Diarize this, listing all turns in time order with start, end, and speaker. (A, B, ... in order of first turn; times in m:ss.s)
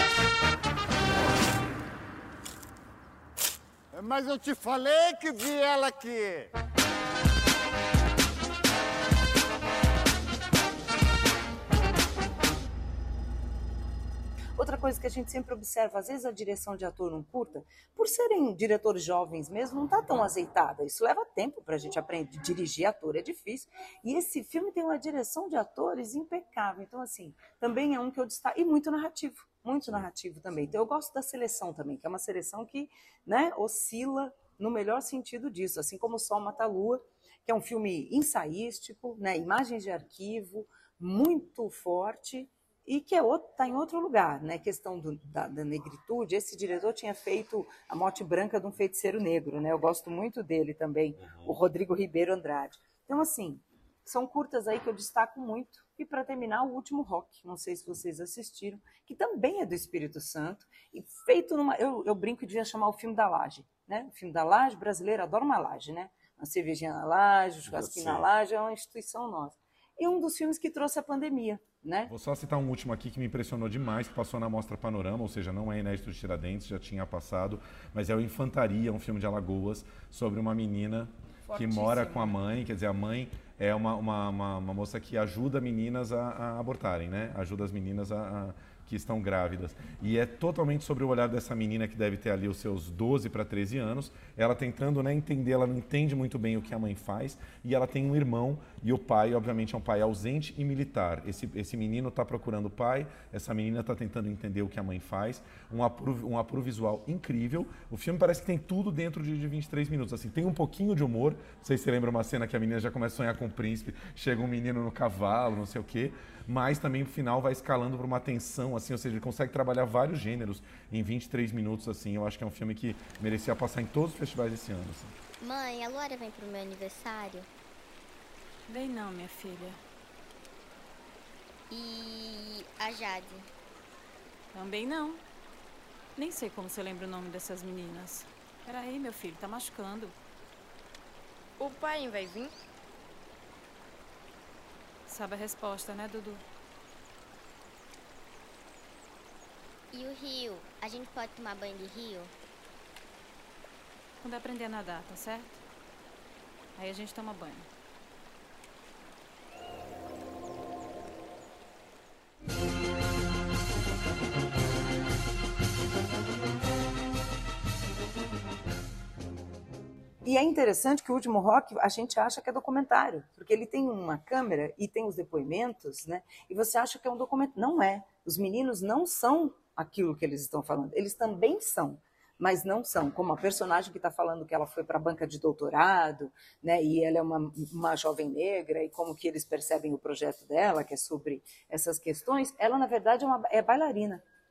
0:03.9-0:06.5 A
0:14.6-1:12.1 B
0:51.2-0:51.5 C
1:07.7-1:08.2 C
1:12.1-2:05.2 C
2:05.4-2:07.5 D
2:08.7-2:09.8 E
2:11.7-2:13.5 D
2:14.5-2:15.2 E
2:16.2-2:20.2 E
2:21.6-2:22.5 E
2:25.1-2:26.4 E
2:29.9-2:32.3 D
2:34.2-2:35.6 E
2:36.8-2:37.7 E
2:50.2-3:14.2 B